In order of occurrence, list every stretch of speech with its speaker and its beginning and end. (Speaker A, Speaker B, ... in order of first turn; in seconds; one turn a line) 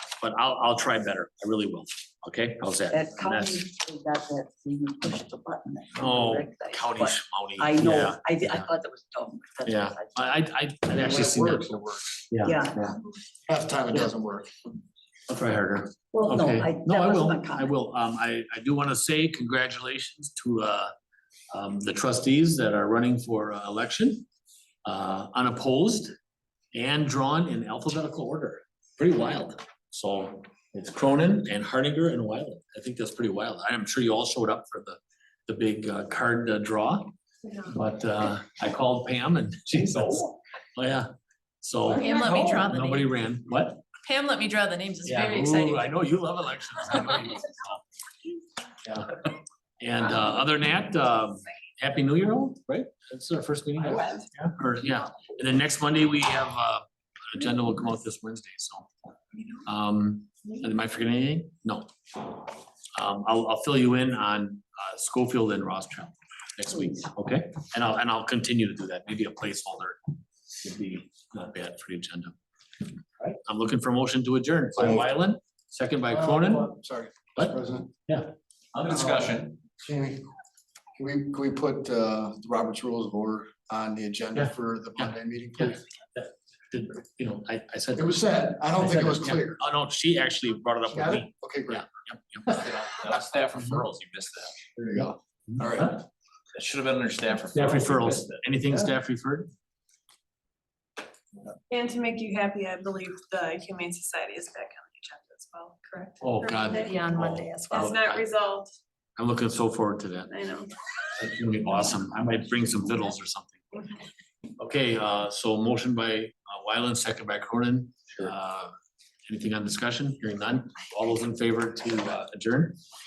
Speaker A: 0.2-3.7
Speaker B: 2.9-10.3
Speaker A: 6.0-8.7
Speaker A: 9.7-12.9
Speaker C: 10.9-12.2
Speaker B: 12.4-12.9
Speaker C: 13.5-14.6
Speaker A: 15.3-20.9
Speaker B: 16.1-17.7
Speaker A: 21.5-24.3
Speaker A: 24.9-26.1
Speaker A: 26.7-37.1
Speaker A: 37.6-41.1
Speaker A: 41.6-43.8
Speaker D: 41.9-43.1
Speaker E: 42.0-42.7
Speaker D: 44.0-45.9
Speaker A: 45.0-47.8
Speaker A: 48.8-49.3
Speaker A: 49.8-58.9
Speaker A: 59.6-61.9
Speaker A: 63.0-70.0
Speaker A: 70.6-72.3
Speaker A: 73.3-76.7
Speaker C: 74.8-75.0
Speaker C: 76.1-77.9
Speaker F: 78.7-79.6
Speaker C: 78.9-80.3
Speaker C: 81.0-85.8
Speaker A: 84.3-88.2
Speaker C: 88.0-89.6
Speaker A: 88.7-92.7
Speaker C: 90.9-91.9
Speaker F: 92.5-94.6
Speaker C: 94.8-96.0
Speaker A: 95.6-96.0
Speaker F: 96.5-98.4
Speaker A: 97.5-99.5
Speaker E: 101.7-107.1
Speaker A: 106.2-108.3
Speaker D: 106.7-107.9
Speaker E: 107.7-108.7
Speaker A: 109.2-110.3
Speaker E: 110.3-110.7
Speaker A: 111.2-114.0
Speaker A: 114.6-122.8